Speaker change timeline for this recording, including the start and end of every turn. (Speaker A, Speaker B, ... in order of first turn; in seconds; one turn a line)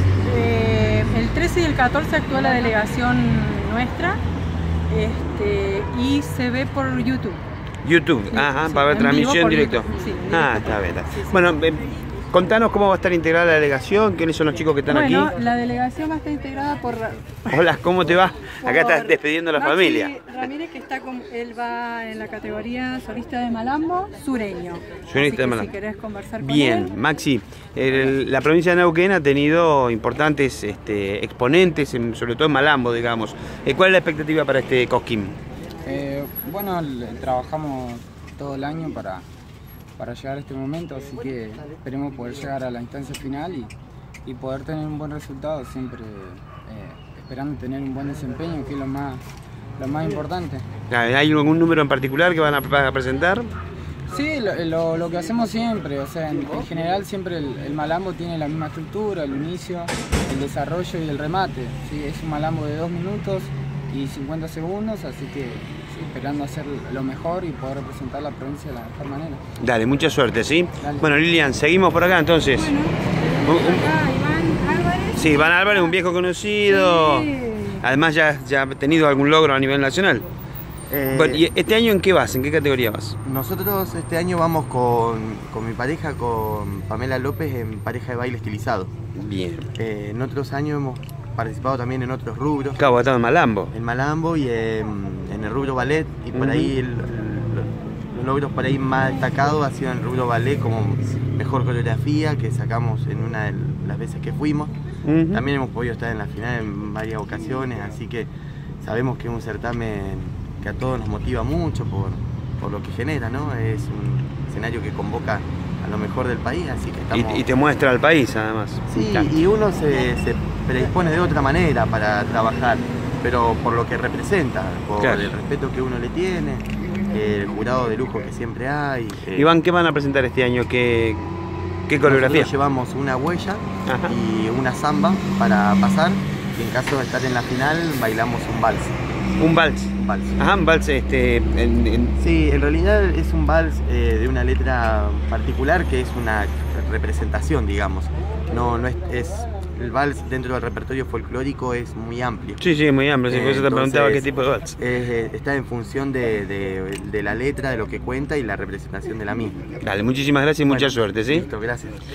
Speaker A: 0.2-4.2
Speaker A: 4.9-7.4
Speaker B: 7.8-15.3
Speaker A: 8.3-11.5
Speaker A: 14.9-17.6
Speaker B: 17.5-20.1
Speaker A: 18.6-26.9
Speaker B: 25.1-25.7
Speaker B: 26.4-35.4
Speaker C: 35.8-39.3
Speaker C: 40.0-49.2
Speaker C: 49.8-50.7
Speaker B: 50.9-53.5
Speaker C: 54.1-69.4
Speaker B: 69.6-72.7
Speaker C: 70.8-71.1
Speaker A: 72.5-76.0
Speaker B: 73.5-73.9
Speaker B: 75.2-80.3
Speaker A: 76.7-77.8
Speaker D: 80.9-81.5
Speaker B: 81.1-83.2
Speaker D: 83.2-88.9
Speaker B: 89.2-89.7
Speaker D: 89.8-92.8
Speaker B: 92.8-93.7
Speaker D: 93.7-104.7
Speaker B: 96.3-96.7
Speaker B: 105.1-105.5
Speaker D: 105.3-108.3
Speaker D: 108.8-117.5
Speaker B: 117.1-119.3
Speaker D: 118.9-129.5
Speaker B: 125.0-125.3
Speaker B: 129.3-131.2
Speaker B: 131.9-132.5
Speaker D: 132.0-139.0
Speaker B: 133.9-134.1
Speaker B: 139.4-142.2
Speaker D: 139.9-140.4
Speaker D: 142.2-159.6
Speaker B: 152.6-154.7
Speaker B: 159.8-161.5
Speaker D: 160.7-162.0